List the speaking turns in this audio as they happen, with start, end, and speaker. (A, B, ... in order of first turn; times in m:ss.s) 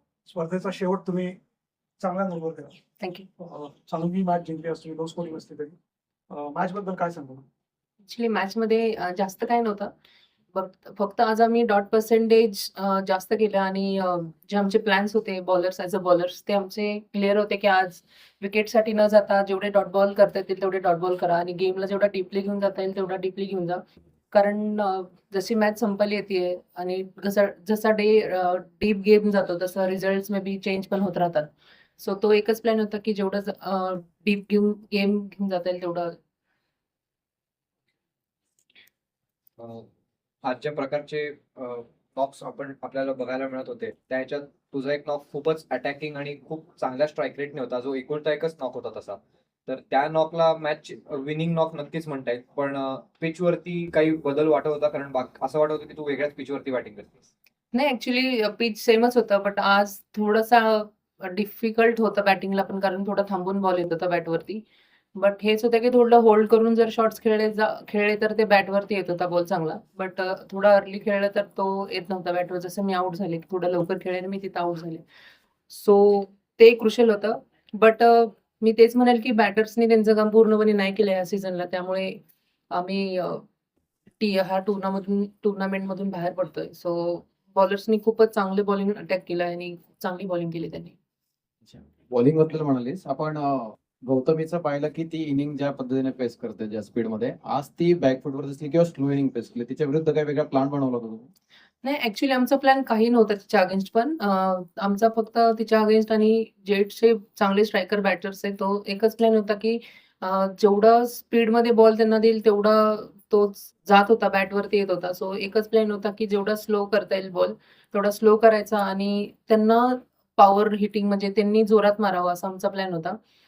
0:00.3-0:01.4 A
0:02.0-0:02.8 A
0:03.0-0:03.3 B
0:03.4-0:05.8 A
0:06.3-0:07.4 A
0:08.0-0:09.9 B
0:10.5-0:36.2 B
0:39.6-0:39.9 C
0:40.4-0:57.3 C
0:57.7-1:04.6 B
1:05.2-1:15.0 B
1:15.7-1:23.4 B
1:24.2-1:31.0 B
1:31.6-1:41.3 D
1:41.8-2:03.2 B